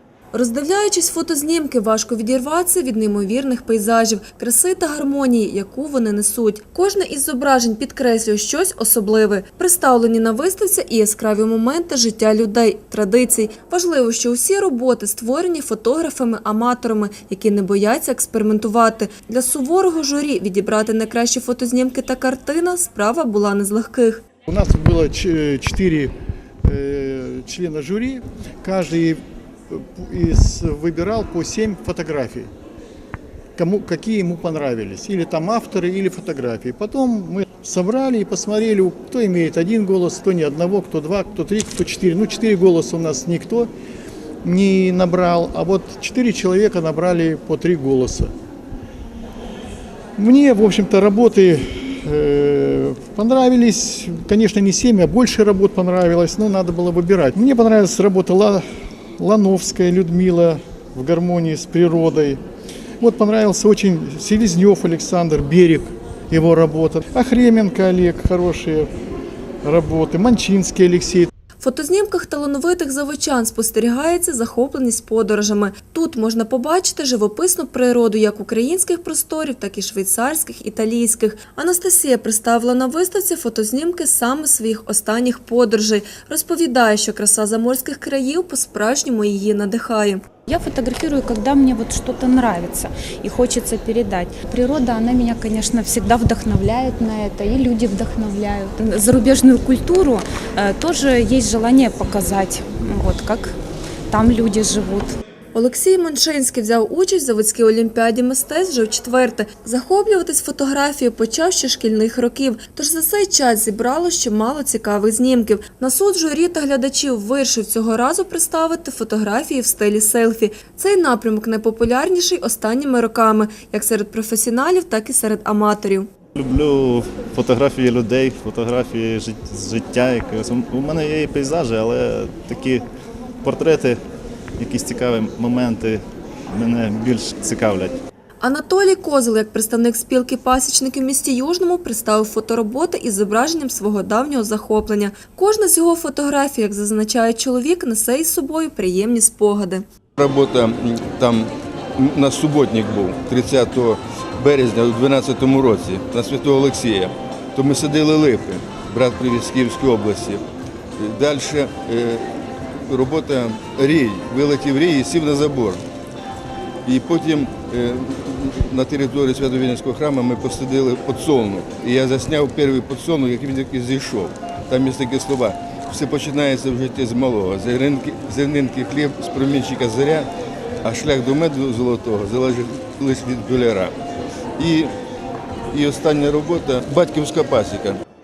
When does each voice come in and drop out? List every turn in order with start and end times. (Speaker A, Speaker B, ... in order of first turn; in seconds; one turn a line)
Speaker A: 0.3-24.2
Speaker B: 24.5-26.1
Speaker B: 26.6-32.5
Speaker B: 33.6-43.7
Speaker B: 44.4-48.3
Speaker B: 50.2-58.6
Speaker B: 59.2-62.4
Speaker B: 63.0-68.9
Speaker B: 69.6-71.3
Speaker A: 71.6-90.2
Speaker C: 90.5-103.5
Speaker C: 104.1-105.1
Speaker A: 105.5-126.1
Speaker D: 126.3-132.8
Speaker D: 133.4-134.0
Speaker D: 134.6-138.0
Speaker A: 138.4-149.8
Speaker E: 150.2-160.4
Speaker E: 161.0-162.3
Speaker E: 162.9-165.8
Speaker E: 166.8-180.3
Speaker E: 180.8-183.9
Speaker E: 184.6-184.9
Speaker E: 185.7-188.0